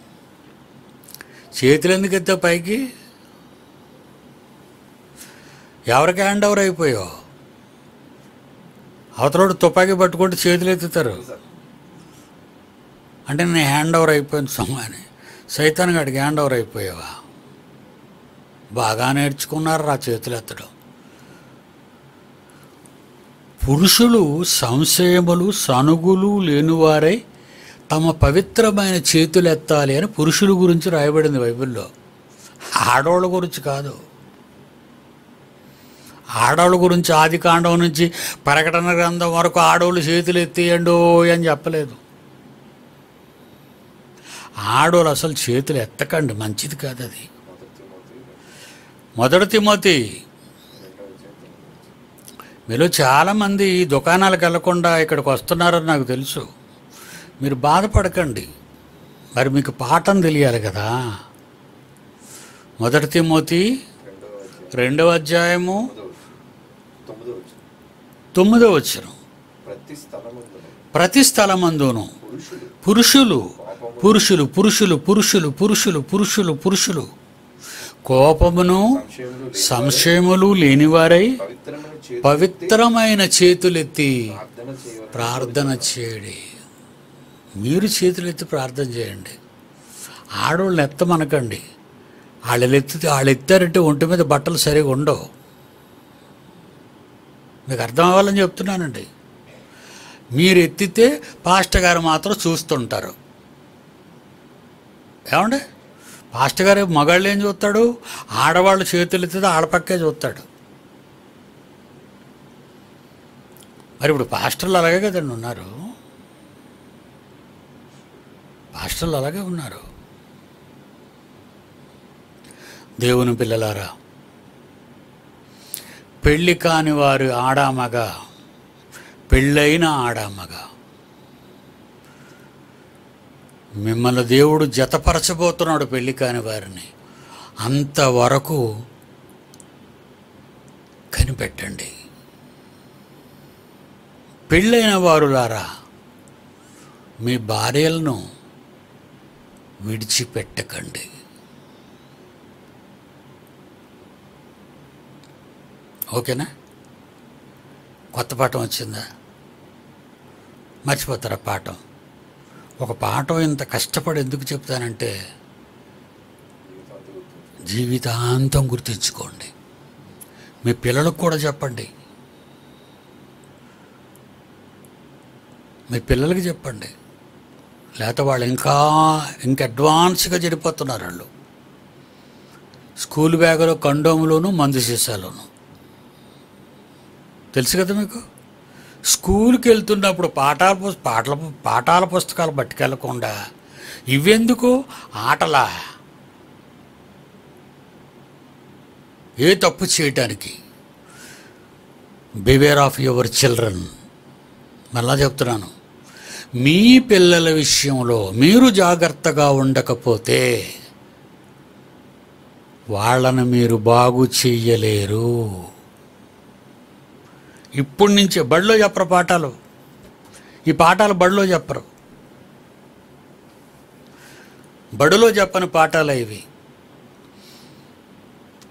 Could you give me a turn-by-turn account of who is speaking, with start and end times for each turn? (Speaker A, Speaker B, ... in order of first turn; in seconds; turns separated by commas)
Speaker A: 1.6-2.8, Speaker A: 5.9-7.1, Speaker A: 9.2-11.2, Speaker A: 13.3-17.1, Speaker A: 18.8-20.7, Speaker A: 23.6-27.2, Speaker A: 27.9-31.9, Speaker A: 32.7-34.0, Speaker A: 36.4-42.0, Speaker A: 44.6-47.3, Speaker B: 47.4-48.4, Speaker A: 49.2-50.0, Speaker B: 50.8-52.0, Speaker A: 52.7-56.5, Speaker A: 57.4-58.5, Speaker A: 59.4-60.9, Speaker A: 62.8-63.7, Speaker B: 64.0-65.0, Speaker A: 64.7-65.9, Speaker B: 65.7-66.2, Speaker B: 67.0-67.6, Speaker A: 68.3-69.2, Speaker B: 69.6-70.8, Speaker A: 70.9-72.1, Speaker B: 72.2-72.8, Speaker A: 72.8-77.1, Speaker B: 73.6-74.3, Speaker A: 78.0-79.0, Speaker B: 78.7-80.2, Speaker A: 79.6-81.3, Speaker B: 81.4-82.8, Speaker A: 82.2-84.2, Speaker B: 84.3-86.0, Speaker A: 85.1-86.4, Speaker A: 87.6-89.4, Speaker A: 90.4-91.6, Speaker A: 92.5-95.3, Speaker A: 97.7-99.1, Speaker A: 100.3-103.2, Speaker A: 105.3-105.6, Speaker A: 106.3-110.5, Speaker A: 114.0-115.7, Speaker A: 118.7-119.8, Speaker A: 123.0-123.9, Speaker A: 126.2-128.1, Speaker A: 129.3-130.7, Speaker A: 133.8-136.9, Speaker A: 137.6-138.6, Speaker A: 141.1-141.9, Speaker A: 144.5-145.6, Speaker A: 147.2-148.2, Speaker A: 149.8-151.1, Speaker A: 156.1-156.5, Speaker A: 158.1-159.0, Speaker A: 160.9-161.8, Speaker A: 162.8-165.1, Speaker B: 166.6-167.8, Speaker A: 167.7-169.5, Speaker A: 170.6-171.9, Speaker A: 175.9-176.9, Speaker A: 178.0-181.3, Speaker A: 183.0-185.5, Speaker A: 187.5-188.2, Speaker A: 189.1-193.3, Speaker A: 194.1-195.7, Speaker A: 199.4-200.6, Speaker A: 202.5-203.9, Speaker A: 204.9-205.7, Speaker A: 206.6-210.5, Speaker A: 212.9-215.6, Speaker A: 217.8-219.5, Speaker A: 220.7-221.8, Speaker A: 225.0-226.4